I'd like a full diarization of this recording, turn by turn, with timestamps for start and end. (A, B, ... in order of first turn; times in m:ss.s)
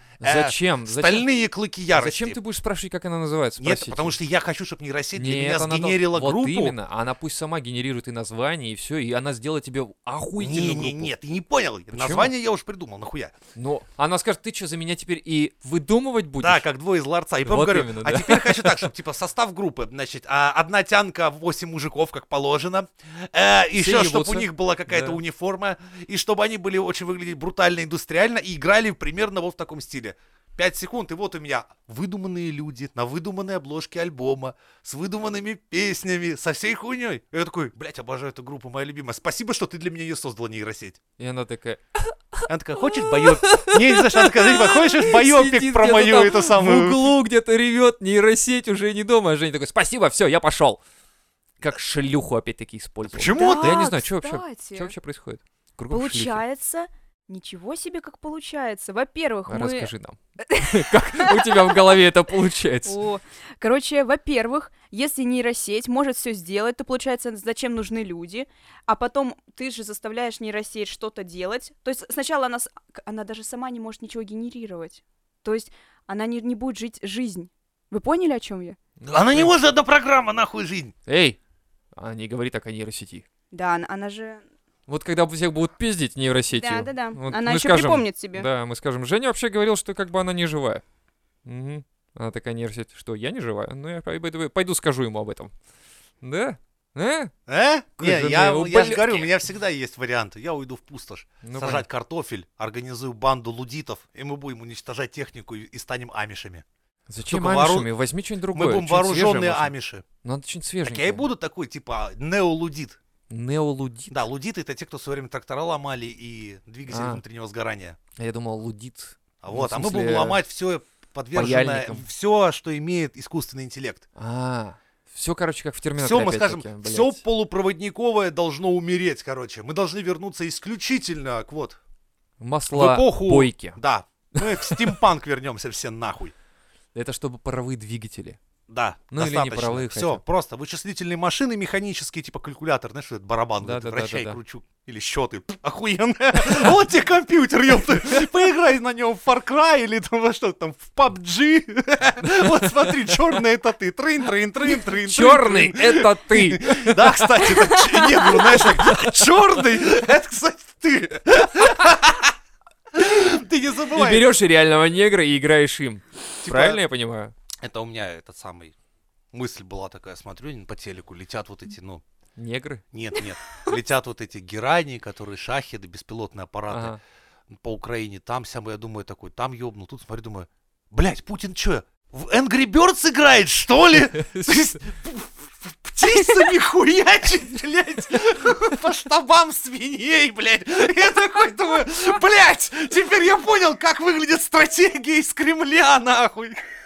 0:00.2-0:01.3 A
0:00.2-0:02.4 B
0:01.9-0:04.2 A
0:03.6-0:06.8 B
0:05.1-0:11.1 A
0:10.4-0:13.3 B
0:11.9-0:12.3 A
0:13.5-0:16.6 A
0:16.4-0:41.0 B
0:17.4-0:18.9 A
0:23.8-0:25.2 A
0:41.2-0:50.8 A
0:42.5-0:47.0 B
0:51.6-0:56.4 A
0:53.1-0:53.9 B
0:53.3-0:54.9 C
0:55.9-0:59.9 C
0:59.5-1:03.0 A
1:00.4-1:01.9 C
1:02.8-1:18.8 C
1:19.0-1:19.5 A
1:19.1-1:20.9 B
1:21.0-1:21.4 A
1:22.0-1:23.2 A
1:23.5-1:24.4 C
1:24.9-1:30.8 A
1:26.5-1:28.5 C
1:31.4-1:35.5 A
1:36.2-1:37.3 A
1:37.5-1:46.6 B
1:38.0-1:39.3 A
1:41.4-1:41.8 A
1:47.1-1:51.3 A
1:47.3-1:47.9 B
1:48.5-1:50.0 B
1:50.8-1:53.0 B
1:53.3-1:54.2 A
1:54.1-1:58.0 B
1:56.9-1:57.2 A
1:58.2-2:00.4 A
1:59.4-2:04.0 B
2:01.3-2:02.0 A
2:04.2-2:07.2 A
2:06.0-2:11.8 B
2:12.4-2:13.8 A
2:12.7-2:16.3 B
2:14.4-2:15.0 A
2:16.9-2:18.4 A
2:18.7-2:42.3 B
2:19.1-2:20.2 A
2:23.6-2:24.4 A
2:35.0-2:37.7 A
2:37.8-2:38.0 C
2:38.3-2:39.2 A
2:42.9-2:44.3 B
2:43.9-2:47.3 A
2:46.4-2:46.8 B
2:47.6-2:48.7 B
2:49.3-2:52.0 B
2:52.4-2:52.8 A
2:52.9-2:57.0 B
2:56.7-2:57.0 A
2:57.5-3:16.6 B
3:04.1-3:04.9 A